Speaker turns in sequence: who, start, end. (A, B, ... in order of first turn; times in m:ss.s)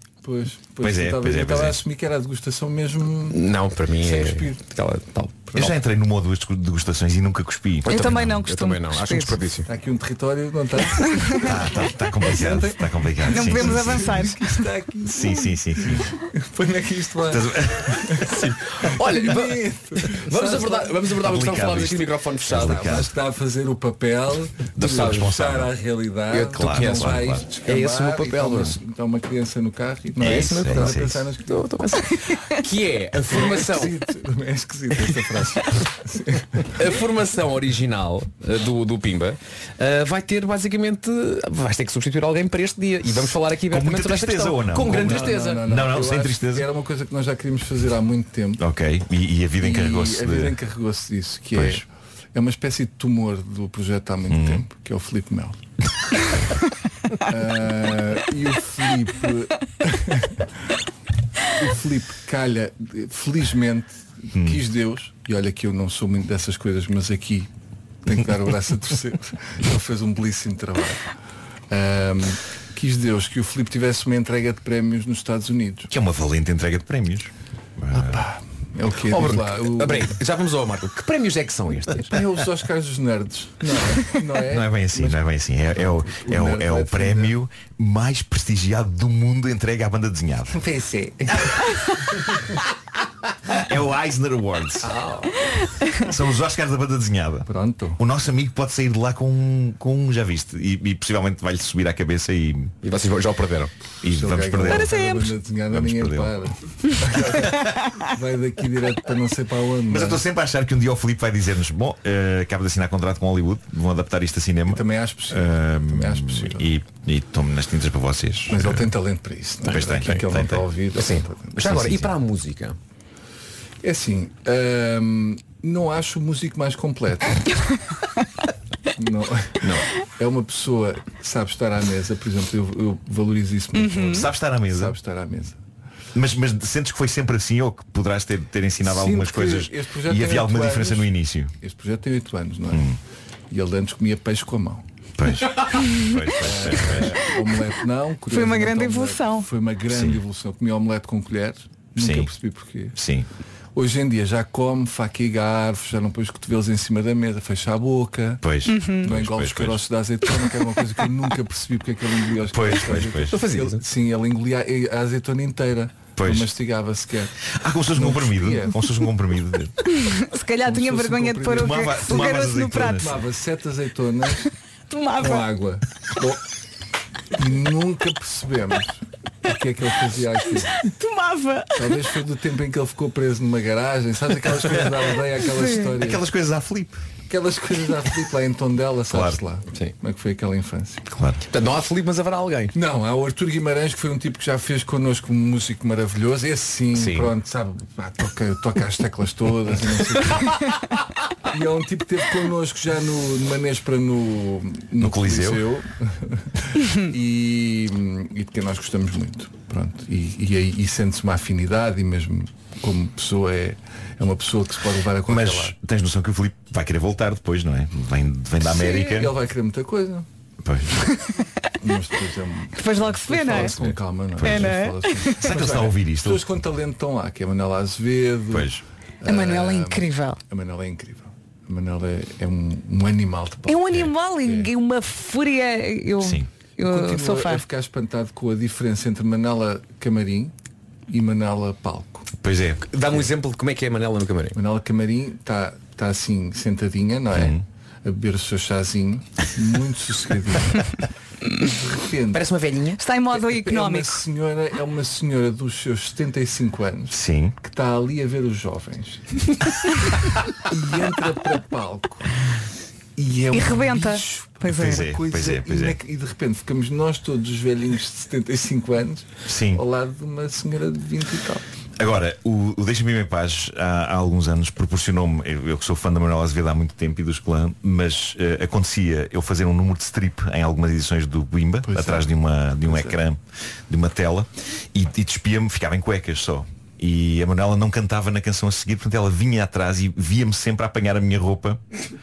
0:00.2-0:03.4 A
0:00.8-0:01.8 B
0:03.3-0:05.7 C
0:04.0-0:04.6 A
0:05.6-0:08.4 B
0:07.8-0:09.7 C
0:07.9-0:09.4 D
0:09.7-0:21.0 A
0:11.4-0:14.2 B
0:13.3-0:14.6 D
0:15.0-0:16.1 B
0:17.3-0:18.5 B
0:18.4-0:23.1 C
0:21.2-0:23.1 B
0:22.5-0:31.8 A
0:24.7-0:25.7 B
0:24.8-0:25.3 C
0:26.3-0:28.8 C
0:26.5-0:27.5 B
0:30.2-0:31.2 B
0:30.2-0:30.9 C
0:31.4-0:34.0 C
0:33.2-0:36.8 A
0:36.7-0:45.7 C
0:43.7-0:46.7 B
0:44.9-0:48.6 A
0:48.6-0:50.6 B
0:49.6-0:55.6 A
0:51.5-0:51.8 B
0:54.3-0:54.6 B
0:57.2-1:00.5 A
1:01.4-1:07.5 A
1:04.3-1:04.6 B
1:08.0-1:11.1 A
1:11.7-1:15.9 A
1:15.9-1:18.2 B
1:17.9-1:20.2 A
1:19.1-1:22.1 C
1:22.1-1:27.3 A
1:24.5-1:30.6 B
1:30.5-1:31.6 A
1:33.6-1:34.9 B
1:34.8-1:35.5 A
1:36.0-1:42.7 B
1:37.4-1:38.0 A
1:42.8-1:43.7 C
1:44.0-1:46.5 B
1:44.0-1:50.2 A
1:44.7-1:45.3 D
1:47.4-1:47.8 B
1:49.9-1:58.8 B
1:54.6-1:56.7 A
1:58.5-2:01.7 A
1:59.6-2:00.6 B
2:00.9-2:02.8 C
2:01.6-2:02.1 B
2:03.8-2:07.4 A
2:09.0-2:15.6 A
2:09.6-2:09.9 C
2:13.7-2:14.3 D
2:14.1-2:14.9 B
2:16.1-2:21.5 B
2:18.8-2:22.9 A
2:22.7-2:23.0 B
2:23.5-2:24.9 A
2:25.2-2:27.3 B
2:26.4-2:33.0 A
2:28.3-2:29.5 D
2:29.9-2:30.2 B
2:32.0-2:32.3 B
2:33.0-2:33.2 B
2:33.7-2:47.3 A
2:38.4-2:39.8 B
2:38.7-2:39.1 D
2:42.5-2:43.4 B
2:43.3-2:43.8 C
2:46.2-2:46.5 B
2:47.4-2:49.7 B
2:47.9-2:48.9 A
2:50.0-2:53.1 D
2:50.6-2:52.2 A
2:51.6-2:53.2 B
2:52.9-2:54.5 A
2:54.9-2:55.5 D
2:55.2-2:56.4 A
2:57.3-3:00.9 A
3:00.9-3:02.0 D
3:01.8-3:06.2 A
3:05.5-3:05.9 D
3:06.0-3:07.0 B
3:07.3-3:11.0 A
3:09.1-3:09.4 B
3:11.1-3:11.4 B
3:11.5-3:12.7 C
3:12.7-3:20.7 A
3:16.9-3:17.3 C
3:21.5-3:35.8 A
3:25.0-3:25.6 B
3:35.3-3:39.3 B
3:38.6-3:40.3 A
3:40.6-3:40.9 B
3:41.8-3:54.7 A
3:42.8-3:43.7 D
3:43.7-3:44.8 B
3:44.4-3:45.5 D
3:45.4-3:46.4 B
3:48.5-3:48.8 B
3:49.2-3:50.4 D
3:53.7-3:57.6 D
3:56.2-3:56.5 B
3:56.8-4:00.5 A
4:01.1-4:02.3 A
4:02.4-4:02.8 B
4:02.9-4:04.6 C
4:04.5-4:11.0 A
4:07.3-4:07.6 B
4:11.8-4:12.4 A
4:12.3-4:13.0 C
4:13.0-4:14.2 D
4:13.5-4:19.6 A
4:17.1-4:17.6 B
4:20.7-4:22.2 A
4:23.2-4:31.6 A
4:23.5-4:25.1 D
4:24.7-4:26.0 B
4:29.5-4:29.8 B
4:32.0-4:51.8 B
4:41.8-4:43.2 A